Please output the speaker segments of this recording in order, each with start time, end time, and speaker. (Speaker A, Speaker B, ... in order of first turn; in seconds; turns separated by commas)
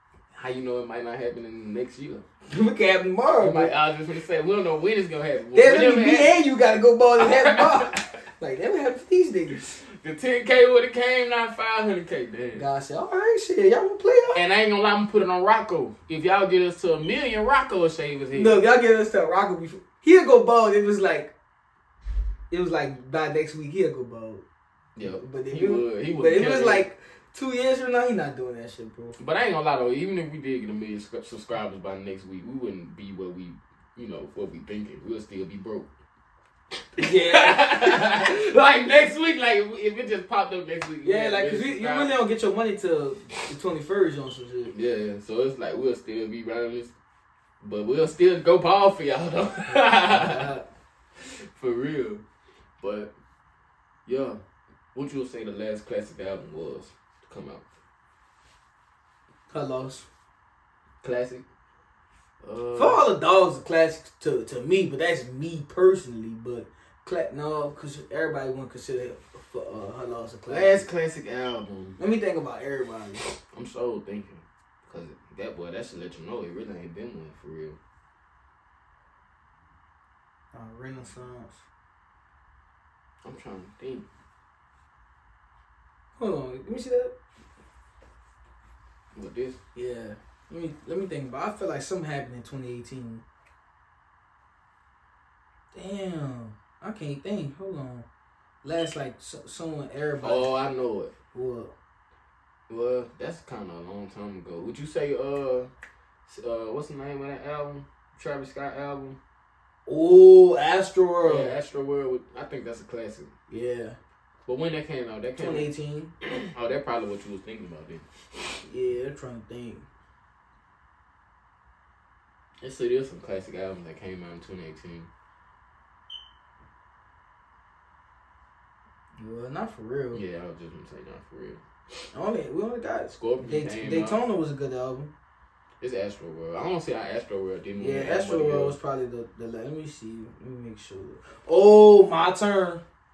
Speaker A: 0.3-2.2, Speaker B: 2.5-3.7, Speaker A: 3.4-6.3, Speaker B: 5.5-9.8, Speaker A: 7.2-8.1, Speaker A: 9.8-12.6, Speaker B: 12.5-14.4, Speaker A: 14.3-18.6, Speaker B: 18.3-21.3, Speaker B: 22.5-24.4, Speaker A: 24.9-26.8, Speaker B: 25.0-29.1, Speaker A: 29.2-35.9, Speaker B: 37.0-38.2, Speaker A: 37.0-42.1, Speaker B: 41.0-44.7, Speaker A: 44.7-46.9, Speaker A: 47.6-50.5, Speaker B: 49.7-50.6, Speaker A: 51.2-52.2, Speaker A: 52.8-53.1, Speaker A: 54.0-54.4, Speaker A: 54.9-57.7, Speaker B: 59.5-60.0, Speaker A: 61.0-61.4, Speaker A: 62.4-63.0, Speaker B: 62.7-70.9, Speaker A: 70.5-72.0, Speaker B: 72.0-73.2, Speaker A: 73.5-77.8, Speaker B: 80.5-81.6, Speaker A: 83.2-84.1, Speaker B: 86.2-87.1, Speaker A: 89.1-89.6, Speaker B: 89.7-93.2, Speaker B: 95.7-98.0, Speaker B: 98.6-100.5, Speaker A: 100.2-101.1, Speaker B: 101.3-101.7, Speaker A: 102.7-105.7, Speaker A: 106.2-109.2, Speaker B: 109.8-111.5, Speaker A: 111.2-113.3, Speaker B: 113.5-114.0, Speaker A: 114.5-115.7, Speaker B: 115.4-116.1, Speaker A: 116.4-118.0, Speaker B: 118.6-119.8, Speaker A: 122.6-125.1, Speaker B: 129.2-130.2, Speaker A: 130.1-131.6, Speaker B: 132.1-135.1, Speaker A: 133.1-134.2, Speaker A: 135.8-138.8, Speaker B: 137.8-142.8